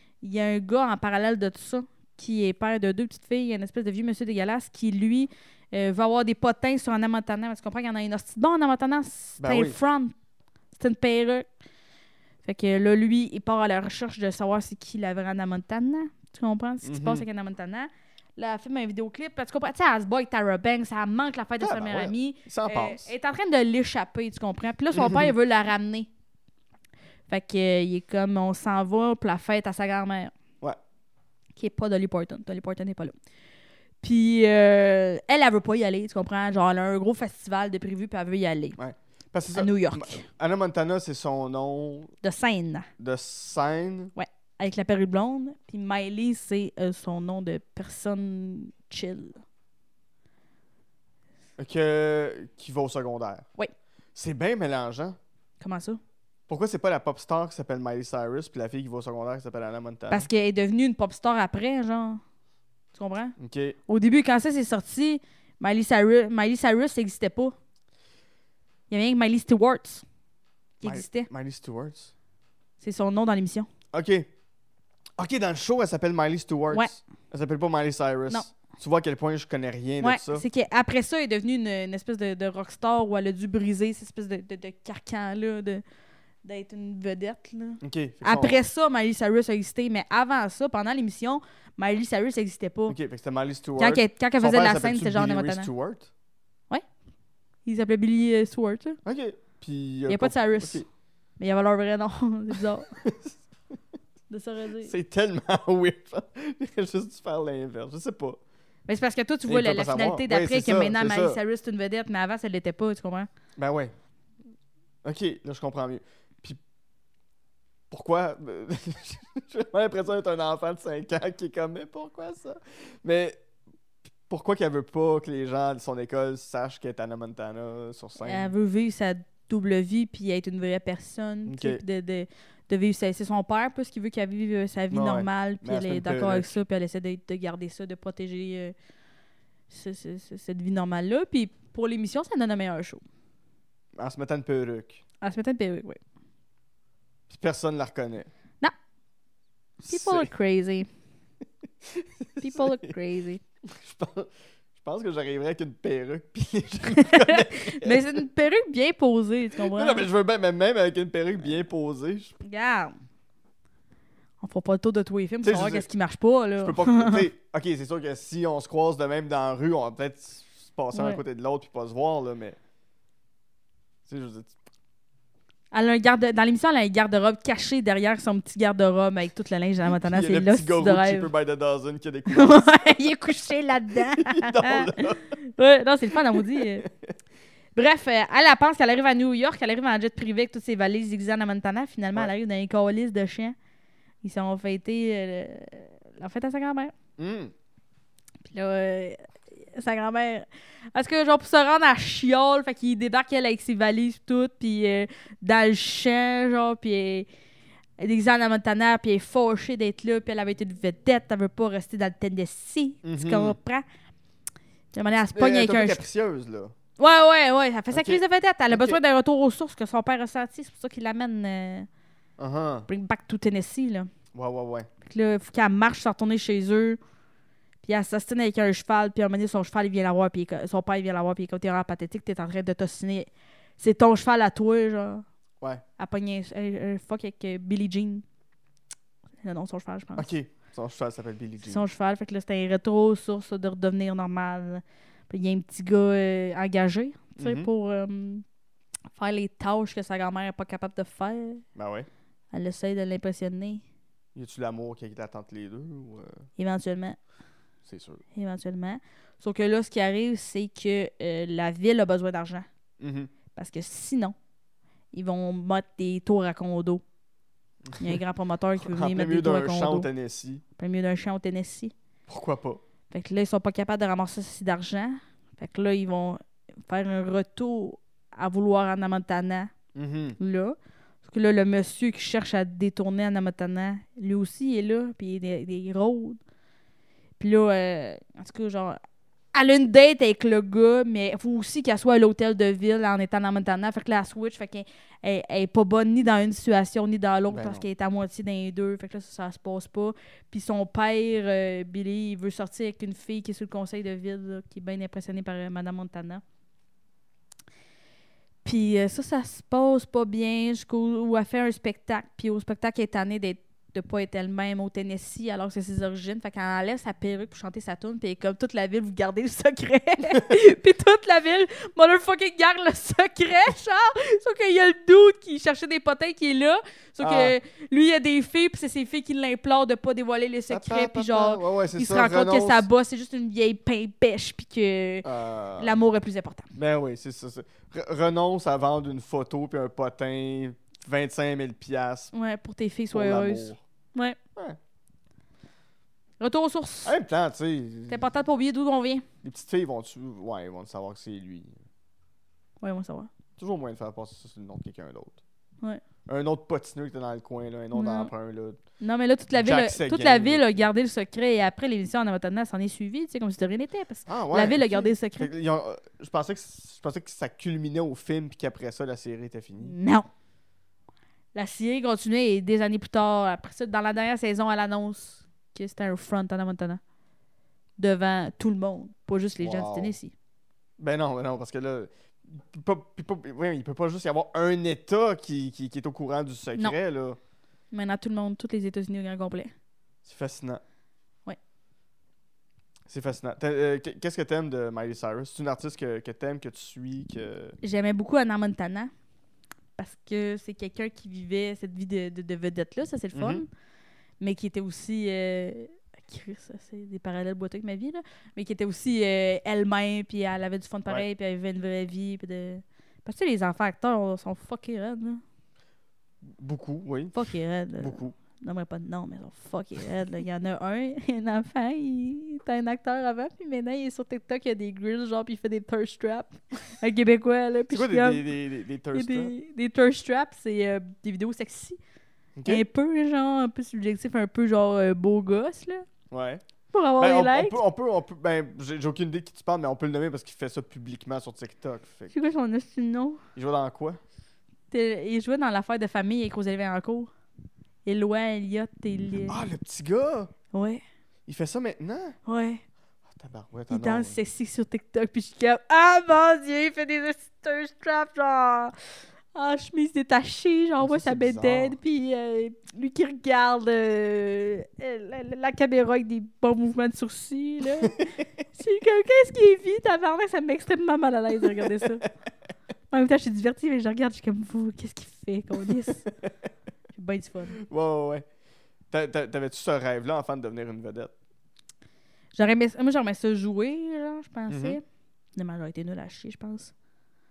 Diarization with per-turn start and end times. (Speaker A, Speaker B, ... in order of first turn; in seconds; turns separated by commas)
Speaker A: 0.2-10.1, Speaker B: 9.4-9.8, Speaker A: 10.7-11.4, Speaker A: 12.4-26.1, Speaker B: 16.8-17.2, Speaker B: 21.6-23.1, Speaker B: 24.9-25.3, Speaker A: 27.3-30.3, Speaker A: 31.6-33.1, Speaker A: 34.0-38.8, Speaker B: 38.8-42.1, Speaker A: 39.5-40.3, Speaker A: 42.2-42.9, Speaker B: 43.0-44.1, Speaker A: 44.1-49.4, Speaker B: 51.6-53.5, Speaker B: 54.1-55.2, Speaker A: 55.6-56.0, Speaker B: 56.5-60.3, Speaker A: 60.1-62.2, Speaker A: 62.9-63.4, Speaker B: 63.4-63.8, Speaker A: 63.9-67.5, Speaker A: 68.9-70.0, Speaker A: 70.8-71.3, Speaker B: 70.8-72.1, Speaker A: 72.8-73.7, Speaker B: 73.9-74.3, Speaker B: 75.2-80.4, Speaker A: 80.0-85.8, Speaker A: 86.4-93.0, Speaker B: 87.8-88.6, Speaker B: 92.9-96.1, Speaker A: 93.8-95.7, Speaker A: 97.6-99.0, Speaker B: 99.0-100.8, Speaker A: 100.1-100.8, Speaker A: 101.4-102.9, Speaker B: 103.0-103.3, Speaker A: 104.3-104.9, Speaker B: 104.8-108.4, Speaker A: 108.9-113.3, Speaker B: 109.5-111.4, Speaker B: 113.6-113.9, Speaker B: 115.0-116.6, Speaker B: 117.9-123.4, Speaker B: 124.3-128.5, Speaker A: 128.2-138.7, Speaker B: 131.4-131.8, Speaker B: 134.9-136.6, Speaker A: 139.7-143.0, Speaker B: 143.9-145.0, Speaker A: 145.2-146.0, Speaker B: 147.3-148.3, Speaker B: 149.8-150.3, Speaker A: 149.9-150.9, Speaker B: 151.8-152.9, Speaker A: 152.4-153.4, Speaker B: 153.6-158.1, Speaker A: 157.0-160.1, Speaker B: 159.5-162.3, Speaker A: 162.4-162.9, Speaker A: 164.4-167.2, Speaker B: 165.4-165.9, Speaker B: 166.6-172.6, Speaker A: 170.9-171.2, Speaker B: 174.0-174.5, Speaker A: 175.7-181.3, Speaker B: 179.9-182.9, Speaker A: 182.3-186.8, Speaker B: 184.1-185.3, Speaker B: 186.5-186.9, Speaker A: 187.8-193.5, Speaker A: 194.2-196.9, Speaker B: 197.2-197.5, Speaker A: 198.5-207.3, Speaker A: 208.0-213.8, Speaker B: 213.0-213.6, Speaker A: 214.9-216.0, Speaker B: 215.3-216.7, Speaker A: 217.0-221.9, Speaker B: 217.9-219.0, Speaker B: 222.4-222.9, Speaker A: 222.9-224.1, Speaker B: 224.3-224.9, Speaker A: 225.0-227.0, Speaker A: 227.8-235.2, Speaker A: 236.0-238.2, Speaker A: 239.4-240.3, Speaker B: 240.2-241.8, Speaker A: 241.6-248.4, Speaker B: 247.4-247.7, Speaker A: 249.1-251.6, Speaker B: 251.7-252.1, Speaker A: 252.5-253.8, Speaker B: 254.3-256.4, Speaker A: 256.6-257.2, Speaker B: 257.8-258.2, Speaker A: 258.3-262.7, Speaker B: 263.0-263.3, Speaker A: 263.5-264.4, Speaker A: 265.1-267.0, Speaker B: 267.8-268.2, Speaker A: 268.0-270.1, Speaker B: 268.8-270.6, Speaker A: 270.8-271.9, Speaker B: 272.3-272.8, Speaker A: 273.1-279.7, Speaker B: 279.9-280.4, Speaker A: 280.4-286.4, Speaker A: 287.4-289.0, Speaker A: 289.5-306.4, Speaker B: 297.5-297.8, Speaker A: 308.6-335.3, Speaker B: 327.2-327.5, Speaker B: 330.7-332.9, Speaker B: 335.2-336.0, Speaker A: 335.8-336.7, Speaker B: 336.8-342.3, Speaker A: 342.3-344.4, Speaker B: 343.1-343.8, Speaker A: 346.4-347.1, Speaker B: 347.0-348.2, Speaker A: 348.1-349.2, Speaker B: 349.4-351.8, Speaker A: 352.8-353.3, Speaker B: 353.6-355.4, Speaker B: 356.2-358.8, Speaker A: 357.9-358.3, Speaker A: 359.0-365.5, Speaker B: 359.6-360.8, Speaker B: 364.3-369.9, Speaker A: 369.8-370.3, Speaker A: 371.5-377.0, Speaker A: 378.0-380.3, Speaker B: 379.6-380.1, Speaker B: 381.0-387.4, Speaker A: 387.9-389.7, Speaker B: 390.2-390.8, Speaker B: 393.1-397.8, Speaker A: 397.8-399.1, Speaker A: 400.0-403.7, Speaker B: 403.3-403.6, Speaker A: 404.4-415.4, Speaker B: 416.4-417.4, Speaker A: 417.3-428.4, Speaker B: 418.0-418.3, Speaker B: 427.9-429.5, Speaker A: 429.1-432.0, Speaker B: 432.6-432.8, Speaker A: 432.6-436.1, Speaker B: 436.3-436.6, Speaker A: 436.9-437.8, Speaker B: 437.2-442.3, Speaker A: 442.3-443.4, Speaker B: 443.5-444.2, Speaker A: 444.9-447.3, Speaker A: 448.0-449.6, Speaker B: 449.5-450.5, Speaker A: 450.7-451.0, Speaker B: 451.5-452.4, Speaker A: 452.4-452.8, Speaker B: 453.4-454.4, Speaker A: 453.9-458.9, Speaker A: 459.5-468.2, Speaker B: 461.0-461.9, Speaker A: 468.7-472.3, Speaker B: 471.6-472.3, Speaker A: 473.1-476.3, Speaker A: 477.1-477.8, Speaker B: 477.8-478.4, Speaker B: 479.1-481.3, Speaker A: 482.5-485.0, Speaker B: 484.7-485.0, Speaker A: 485.6-486.9